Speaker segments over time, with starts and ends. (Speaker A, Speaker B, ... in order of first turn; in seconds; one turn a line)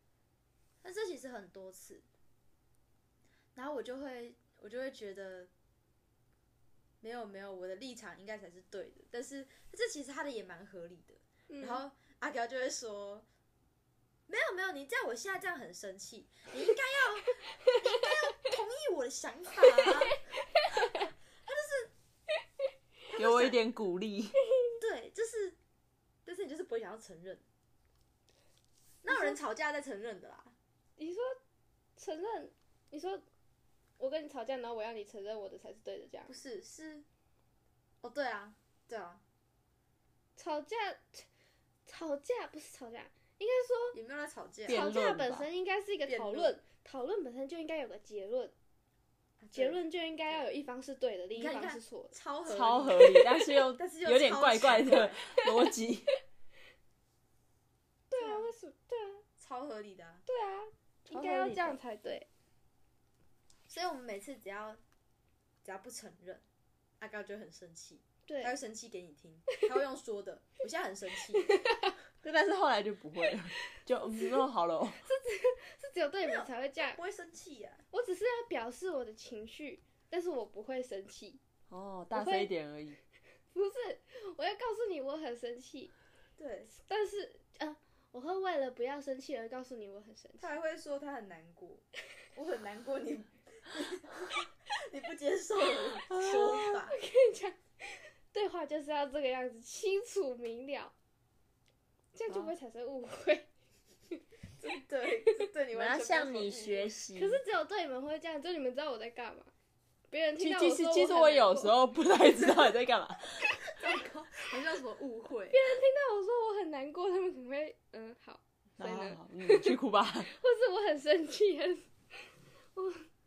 Speaker A: 0.8-2.0
Speaker A: 3.5-5.5
Speaker A: 7.0-13.2
Speaker B: 11.5-11.8
Speaker A: 14.3-20.3
Speaker B: 19.6-21.0
Speaker A: 21.4-21.9
Speaker A: 23.1-23.6
Speaker C: 23.1-24.4
Speaker B: 24.4-24.8
Speaker A: 24.8-25.6
Speaker A: 26.2-27.4
Speaker A: 29.0-30.5
Speaker B: 29.1-29.4
Speaker B: 31.0-31.4
Speaker B: 32.0-33.2
Speaker B: 34.0-36.3
Speaker A: 36.3-37.0
Speaker A: 38.0-39.2
Speaker B: 40.4-41.3
Speaker B: 41.9-44.0
Speaker A: 43.9-44.8
Speaker C: 44.6-45.5
Speaker B: 44.7-48.5
Speaker A: 46.1-46.5
Speaker A: 49.4-49.8
Speaker B: 49.5-52.1
Speaker A: 51.3-55.2
Speaker C: 52.5-56.1
Speaker B: 58.1-59.2
Speaker A: 58.1-58.5
Speaker A: 59.4-60.2
Speaker B: 60.2-62.3
Speaker A: 61.1-61.7
Speaker A: 63.7-64.8
Speaker A: 65.6-66.4
Speaker A: 67.0-71.5
Speaker B: 68.3-68.5
Speaker B: 71.4-71.9
Speaker C: 72.2-75.0
Speaker B: 75.0-77.0
Speaker A: 76.2-77.8
Speaker B: 77.9-81.4
Speaker C: 81.7-83.0
Speaker B: 82.1-82.5
Speaker B: 83.5-85.9
Speaker A: 86.4-86.7
Speaker B: 86.7-90.5
Speaker A: 90.4-97.0
Speaker C: 96.1-96.7
Speaker B: 96.2-100.9
Speaker B: 102.1-103.5
Speaker B: 104.1-104.7
Speaker A: 104.6-106.9
Speaker C: 105.7-107.4
Speaker B: 107.2-109.5
Speaker B: 110.1-111.8
Speaker C: 110.4-113.6
Speaker B: 113.5-113.8
Speaker A: 113.7-115.6
Speaker B: 115.5-123.0
Speaker C: 118.8-120.3